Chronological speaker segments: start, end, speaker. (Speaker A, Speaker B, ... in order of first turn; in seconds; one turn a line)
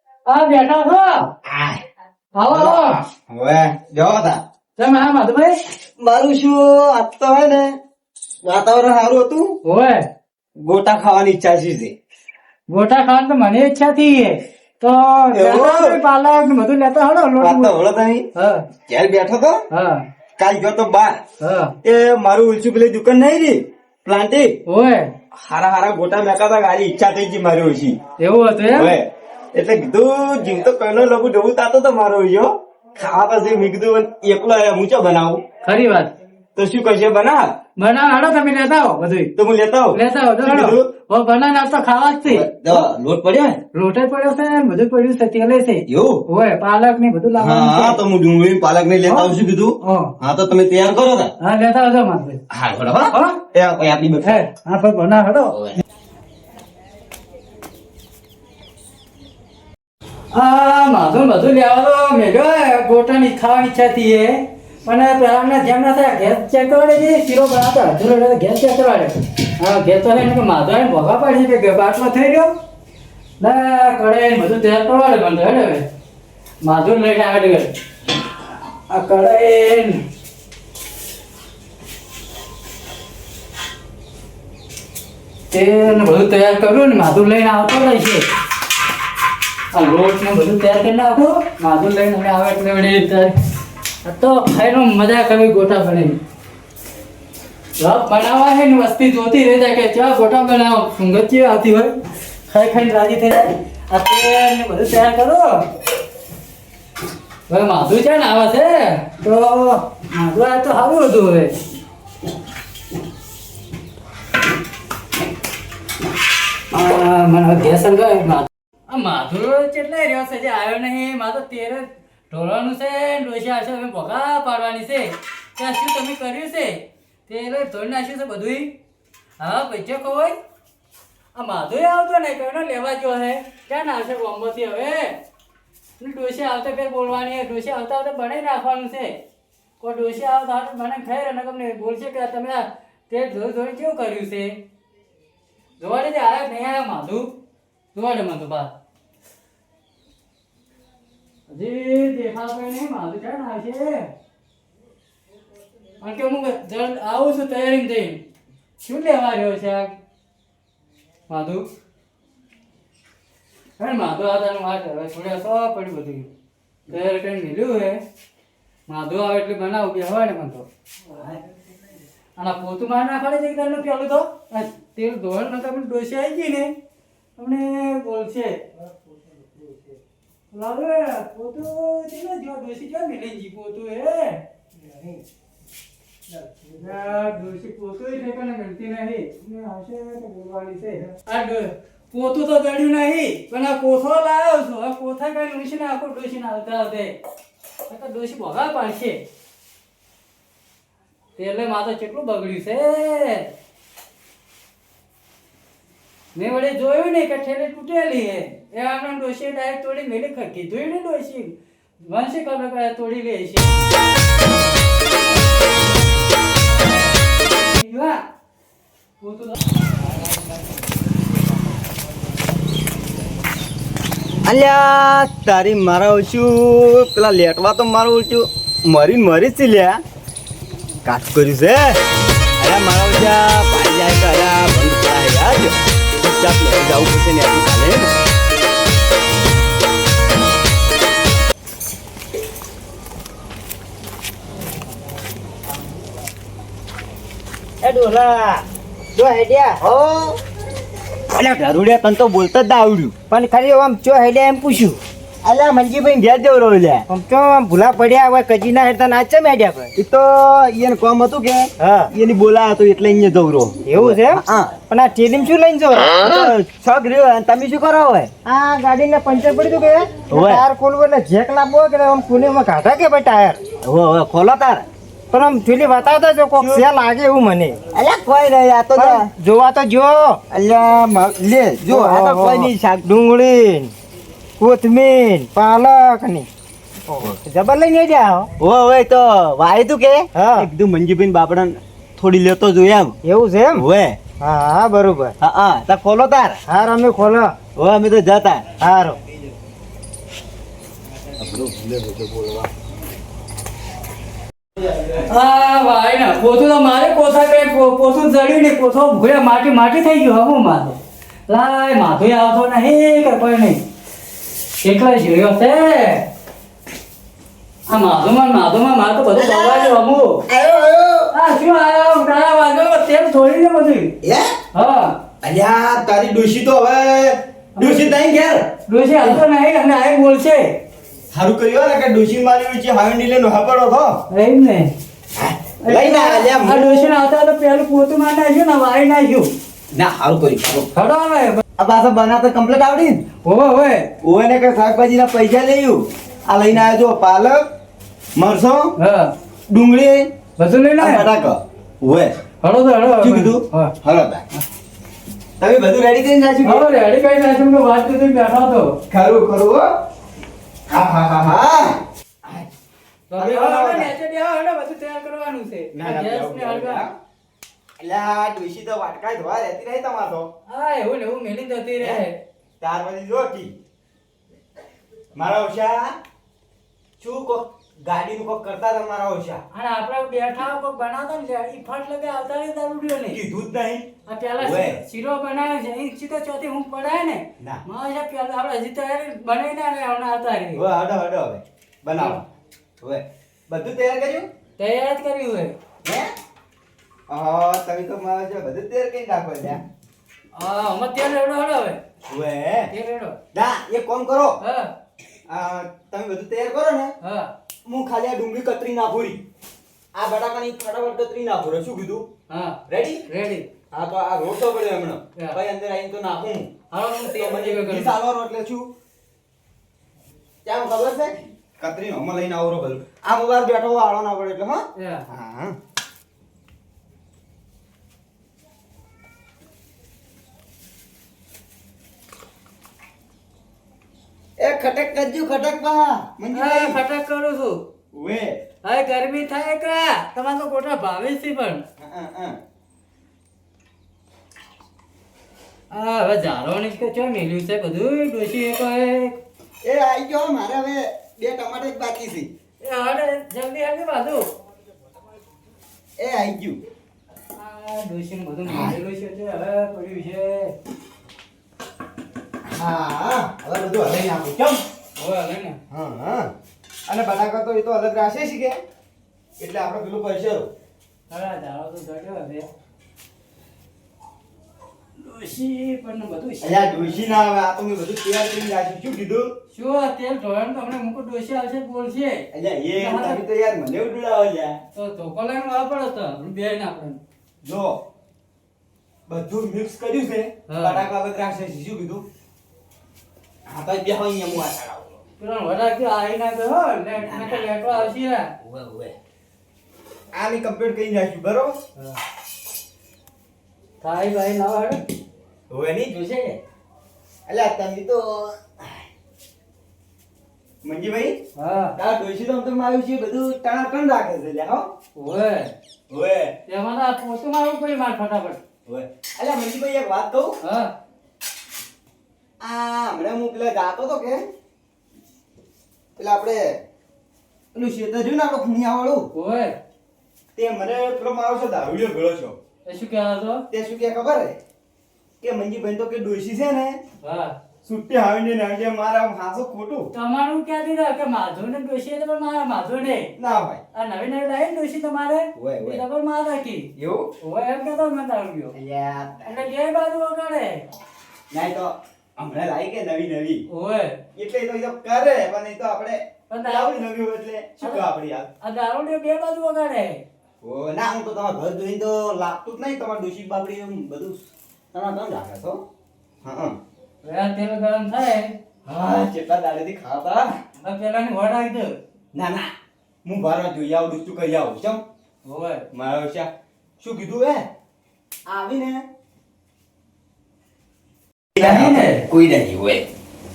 Speaker A: 0.3-1.3
Speaker B: 1.5-1.8
Speaker A: 2.4-3.0
Speaker B: 2.5-4.4
Speaker A: 4.8-5.6
Speaker B: 6.0-7.8
Speaker B: 8.4-9.6
Speaker A: 9.7-10.1
Speaker B: 10.6-11.9
Speaker A: 12.7-17.8
Speaker B: 15.3-16.0
Speaker B: 17.4-18.3
Speaker A: 18.4-18.6
Speaker B: 18.9-19.6
Speaker A: 19.7-20.0
Speaker B: 20.4-21.2
Speaker A: 21.4-21.7
Speaker B: 21.8-24.6
Speaker A: 24.7-25.1
Speaker B: 25.4-28.0
Speaker A: 28.2-28.9
Speaker B: 28.7-35.4
Speaker A: 35.6-36.1
Speaker B: 36.6-37.5
Speaker A: 37.8-39.3
Speaker B: 39.4-40.9
Speaker A: 39.9-42.8
Speaker B: 42.3-43.6
Speaker A: 43.8-48.0
Speaker B: 45.9-46.2
Speaker B: 47.4-51.3
Speaker A: 49.1-50.1
Speaker A: 51.4-52.4
Speaker B: 52.5-54.4
Speaker A: 53.1-53.4
Speaker A: 54.2-55.6
Speaker A: 60.3-72.5
Speaker A: 73.4-75.9
Speaker A: 76.6-77.7
Speaker A: 78.9-80.0
Speaker A: 85.5-88.3
Speaker A: 89.7-93.3
Speaker A: 94.0-96.2
Speaker A: 97.8-101.9
Speaker A: 102.5-105.6
Speaker A: 107.5-111.5
Speaker A: 116.7-128.7
Speaker A: 129.4-130.4
Speaker A: 131.3-135.2
Speaker A: 136.0-139.2
Speaker A: 139.8-144.6
Speaker A: 145.8-147.3
Speaker A: 147.9-148.7
Speaker A: 151.5-154.1
Speaker A: 156.0-158.2
Speaker A: 158.8-159.9
Speaker A: 161.3-161.7
Speaker A: 163.8-166.3
Speaker A: 166.9-168.0
Speaker A: 168.9-170.7
Speaker A: 172.4-176.7
Speaker A: 177.4-178.7
Speaker A: 180.5-184.4
Speaker C: 184.8-185.2
Speaker A: 186.6-197.2
Speaker A: 197.9-199.2
Speaker A: 201.4-203.5
Speaker A: 206.3-211.5
Speaker A: 212.1-213.8
Speaker A: 217.7-218.2
Speaker A: 219.2-219.6
Speaker B: 224.4-230.0
Speaker B: 231.1-232.0
Speaker B: 232.6-238.2
Speaker C: 247.8-249.8
Speaker B: 249.8-250.4
Speaker B: 251.3-253.1
Speaker C: 253.3-255.0
Speaker B: 255.4-257.1
Speaker C: 257.1-259.9
Speaker B: 260.0-264.7
Speaker C: 261.8-262.1
Speaker C: 263.9-266.5
Speaker B: 266.1-268.3
Speaker C: 268.4-273.6
Speaker B: 270.3-270.6
Speaker B: 273.8-274.9
Speaker C: 275.3-277.8
Speaker B: 276.6-276.9
Speaker B: 277.9-279.3
Speaker C: 279.0-280.4
Speaker B: 280.5-283.0
Speaker C: 281.9-283.9
Speaker C: 284.6-286.5
Speaker C: 287.1-288.5
Speaker B: 288.6-293.2
Speaker C: 290.4-290.7
Speaker C: 293.2-293.8
Speaker B: 293.7-294.2
Speaker C: 294.4-295.3
Speaker B: 295.4-296.6
Speaker C: 296.7-297.6
Speaker B: 297.8-298.7
Speaker C: 298.8-299.2
Speaker B: 301.4-302.7
Speaker A: 305.2-313.8
Speaker A: 314.8-316.2
Speaker A: 317.9-320.4
Speaker B: 319.4-320.0
Speaker B: 320.5-321.3
Speaker A: 321.3-324.1
Speaker B: 324.2-324.5
Speaker A: 324.7-325.2
Speaker B: 325.4-328.7
Speaker A: 327.8-328.1
Speaker A: 328.9-330.8
Speaker B: 331.3-334.2
Speaker A: 334.3-334.9
Speaker B: 335.4-337.1
Speaker A: 335.8-339.5
Speaker B: 339.9-340.9
Speaker A: 340.9-341.6
Speaker B: 341.8-343.2
Speaker A: 343.4-344.1
Speaker B: 344.2-347.7
Speaker B: 348.4-348.9
Speaker A: 349.0-349.3
Speaker B: 349.7-350.3
Speaker A: 350.6-351.2
Speaker B: 351.0-352.3
Speaker A: 352.6-353.9
Speaker B: 353.2-354.4
Speaker B: 355.6-356.8
Speaker A: 356.6-359.0
Speaker B: 359.1-359.8
Speaker B: 360.9-362.7
Speaker A: 363.3-367.0
Speaker B: 363.4-364.1
Speaker B: 365.9-367.1
Speaker B: 368.0-370.5
Speaker A: 370.7-372.4
Speaker B: 372.8-373.7
Speaker B: 375.4-376.2
Speaker B: 377.2-379.6
Speaker A: 379.7-383.4
Speaker B: 383.3-384.1
Speaker A: 384.3-390.8
Speaker B: 384.6-385.0
Speaker B: 390.8-392.4
Speaker A: 392.2-392.4
Speaker B: 393.0-394.5
Speaker A: 394.8-395.8
Speaker B: 396.0-396.3
Speaker B: 397.3-399.8
Speaker A: 400.6-402.0
Speaker B: 402.3-402.9
Speaker A: 402.9-403.4
Speaker B: 403.5-404.6
Speaker A: 404.6-404.9
Speaker B: 405.5-407.1
Speaker A: 407.2-407.5
Speaker B: 407.9-409.4
Speaker B: 410.1-412.3
Speaker A: 412.5-413.7
Speaker B: 412.9-413.2
Speaker B: 413.9-416.7
Speaker A: 416.9-418.1
Speaker B: 417.2-418.9
Speaker B: 420.6-425.8
Speaker A: 425.0-425.3
Speaker B: 434.6-437.0
Speaker A: 436.5-437.8
Speaker B: 438.1-438.6
Speaker A: 438.8-441.9
Speaker B: 442.0-442.6
Speaker A: 445.9-449.4
Speaker B: 449.8-452.5
Speaker A: 452.8-454.4
Speaker B: 456.2-456.8
Speaker A: 457.6-460.7
Speaker B: 458.7-458.9
Speaker B: 462.7-464.8
Speaker A: 465.2-465.8
Speaker B: 465.9-466.5
Speaker B: 467.1-468.8
Speaker B: 469.6-470.7
Speaker A: 471.3-472.7
Speaker A: 475.2-477.2
Speaker B: 476.6-479.5
Speaker A: 479.8-482.4
Speaker B: 482.5-484.8
Speaker A: 483.0-483.4
Speaker A: 484.9-487.2
Speaker B: 487.6-488.0
Speaker B: 489.3-492.2
Speaker A: 490.7-491.0
Speaker B: 493.7-495.2
Speaker A: 495.4-498.5
Speaker B: 497.2-498.1
Speaker B: 498.6-499.1
Speaker B: 500.3-501.8
Speaker A: 504.0-505.0
Speaker B: 505.7-506.6
Speaker B: 507.5-509.0
Speaker B: 510.8-511.4
Speaker A: 511.6-511.9
Speaker B: 512.0-514.9
Speaker A: 515.1-515.7
Speaker B: 516.1-516.5
Speaker A: 516.7-518.6
Speaker B: 518.9-520.6
Speaker A: 520.6-520.9
Speaker B: 522.6-524.5
Speaker B: 526.2-526.8
Speaker B: 527.7-529.3
Speaker A: 529.3-529.8
Speaker B: 530.6-532.6
Speaker A: 532.9-533.6
Speaker B: 533.7-534.6
Speaker B: 535.4-537.0
Speaker A: 537.2-537.5
Speaker B: 537.8-540.1
Speaker A: 540.1-543.3
Speaker B: 543.4-543.8
Speaker A: 544.0-546.9
Speaker B: 545.6-546.0
Speaker B: 547.0-547.3
Speaker A: 547.4-548.8
Speaker B: 548.7-549.5
Speaker A: 549.5-550.9
Speaker B: 551.5-553.6
Speaker A: 553.7-554.2
Speaker B: 554.4-558.5
Speaker A: 556.5-557.0
Speaker A: 558.6-560.2
Speaker B: 560.6-564.4
Speaker B: 564.9-565.8
Speaker B: 566.4-566.8
Speaker A: 567.2-568.6
Speaker B: 568.9-570.5
Speaker A: 570.8-572.0
Speaker B: 572.3-572.7
Speaker B: 573.2-575.0
Speaker A: 575.5-575.9
Speaker B: 575.9-577.7
Speaker B: 578.5-579.0
Speaker B: 581.6-583.1
Speaker A: 581.6-582.3